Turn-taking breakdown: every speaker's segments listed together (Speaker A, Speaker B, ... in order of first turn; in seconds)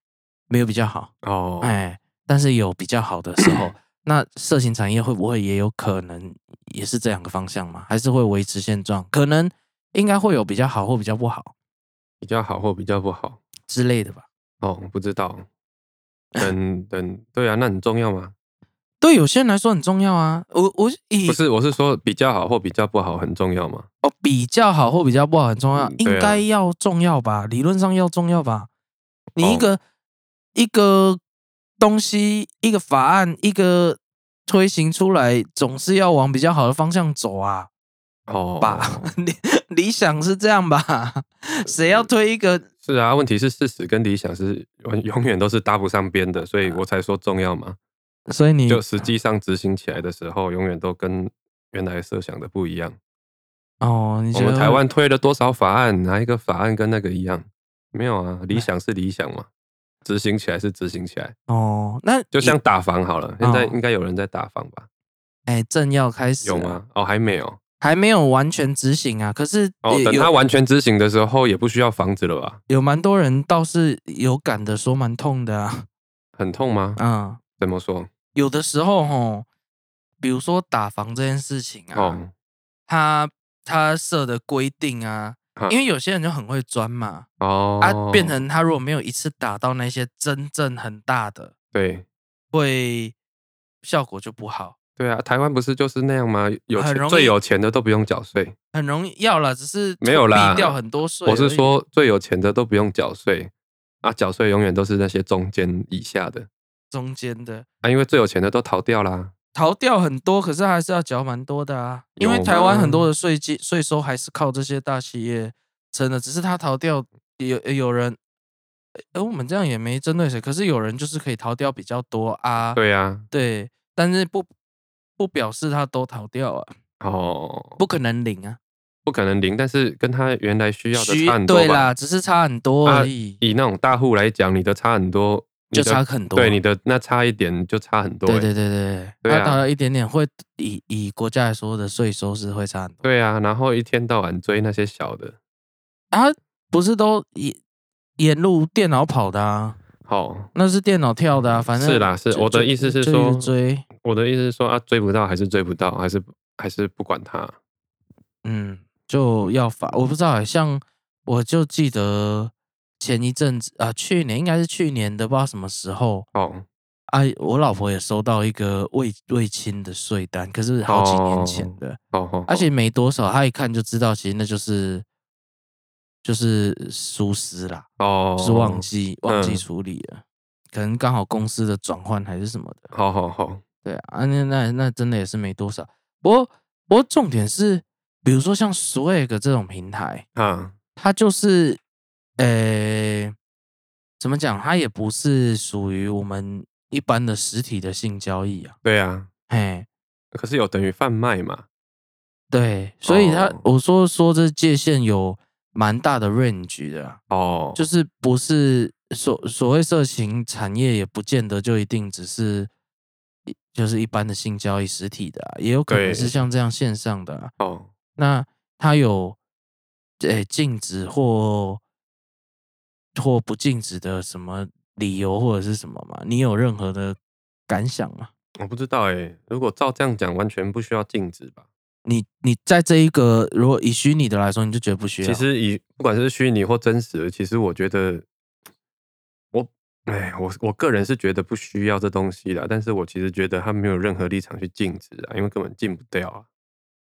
Speaker A: 0.5-11.5, 13.7-14.2, 19.0-21.4, 24.0-28.7, 29.4-29.8, 30.5-31.2, 31.8-37.7, 38.6-42.7, 48.3-49.0, 53.8-54.8, 61.5-62.6, 63.4-63.8, 65.5-66.8, 67.8-70.3, 72.7-75.9, 77.0-77.4, 78.3-79.5, 80.2-82.2, 82.9-87.3, 87.8-91.5, 92.5-93.1, 93.8-94.8, 96.7-97.4, 98.7-101.7, 106.9-107.7, 109.5-118.2, 119.1-122.8, 123.3-124.5, 125.2-126.7, 127.8-128.6, 130.9-133.4, 135.7-136.6, 138.2-143.0, 146.1-147.6, 148.2-149.8, 150.5-153.8, 158.4-166.3, 167.1-175.0, 176.2-177.8, 178.4-182.9, 183.8-190.2, 190.9-191.8, 192.4-193.3, 194.2-198.8, 199.5-199.9, 202.5-207.2, 207.7-212.7, 213.5-217.5, 218.2-219.4, 220.2-221.8, 223.1-228.3, 232.1-235.4
Speaker B: 1.2-1.7, 12.2-13.4, 14.6-15.4, 16.4-18.3, 21.3-23.9, 25.8-26.4, 29.4-29.7, 38.3-39.1, 41.7-42.1, 42.8-47.8, 48.7-53.0, 54.3-59.5, 60.0-61.3, 62.3-64.9, 66.4-67.6, 69.8-72.6, 76.4-77.0, 77.6-78.1, 81.9-82.3, 85.5-85.8, 87.4-88.3, 91.7-92.0, 95.0-98.5, 100.0-103.5, 104.0-106.5, 107.8-109.3, 112.2-113.1, 122.7-123.3, 127.0-127.8, 129.0-131.9, 132.8-138.5, 139.2-139.6, 143.0-145.3, 150.0-150.5, 151.3-157.5, 166.3-166.6, 170.8-172.7, 178.0-179.6, 182.9-183.6, 190.3-190.7, 198.8-199.3, 200.3-201.6, 203.1-203.6, 207.3-207.8, 215.9-216.3, 217.6-217.9, 228.6-231.6, 235.2-238.2, 239.5-246.4